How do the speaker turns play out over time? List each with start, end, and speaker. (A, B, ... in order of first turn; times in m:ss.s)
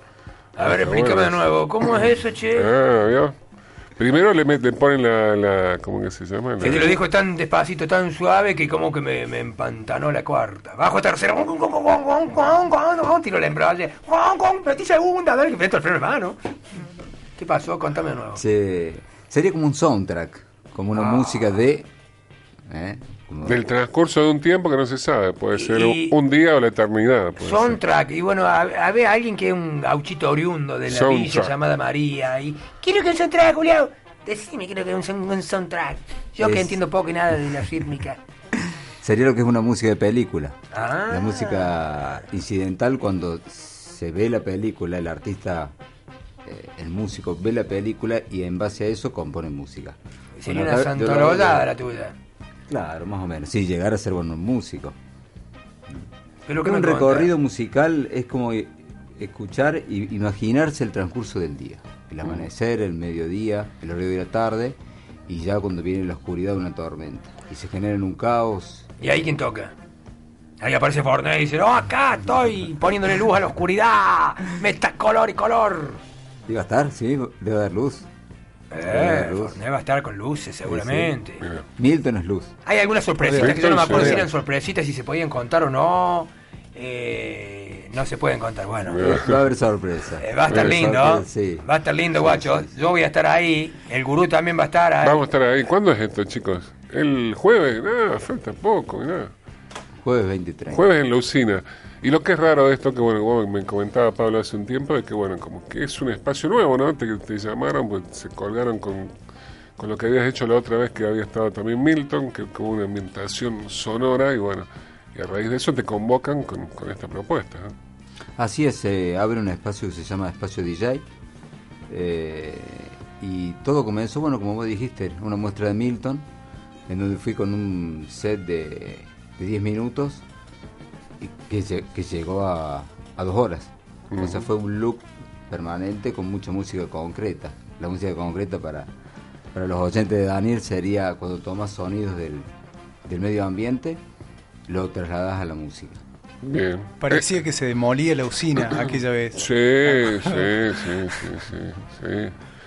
0:00.6-0:02.7 A
0:00.6-0:01.4 B
0:02.5-0:03.3 B
0:04.0-0:07.0 B
0:06.6-0:18.4 A
0:18.3-0:21.9 C
0:20.9-0:21.6 A
0:22.7-0:23.6 C
0:23.4-0:27.8 B
0:25.5-0:26.2 A
0:27.4-0:38.2 A
0:30.9-0:31.5 B
0:36.4-0:36.8 C
0:39.0-0:40.6 C
0:40.7-0:41.7 A
0:41.1-0:45.7 C
0:46.4-0:51.7 C
0:50.4-0:52.1 A
0:52.7-0:54.9 C
0:56.4-0:57.3 A
0:56.6-1:08.9 C
1:09.0-1:09.7 A
1:10.6-1:16.0 A
1:16.4-1:18.1 C
1:18.7-1:21.4 A
1:18.8-1:19.6 C
1:20.6-1:21.1 C
1:21.8-1:22.5 C
1:22.6-1:29.1 A
1:23.2-1:24.2 D
1:23.4-1:24.3 B
1:28.8-1:29.4 B
1:29.0-1:32.7 C
1:30.2-1:35.2 A
1:30.5-1:30.8 B
1:35.0-1:39.3 B
1:40.0-1:40.8 C
1:40.7-1:49.1 B
1:49.8-1:57.7 B
1:58.4-2:01.0 C
2:01.9-2:06.3 C
2:06.9-2:10.2 C
2:11.2-2:18.9 C
2:14.1-2:14.5 B
2:19.5-2:22.5 C
2:23.0-2:24.0 C
2:24.7-2:26.0 C
2:26.4-2:27.3 B
2:27.0-2:29.5 D
2:29.4-2:32.3 B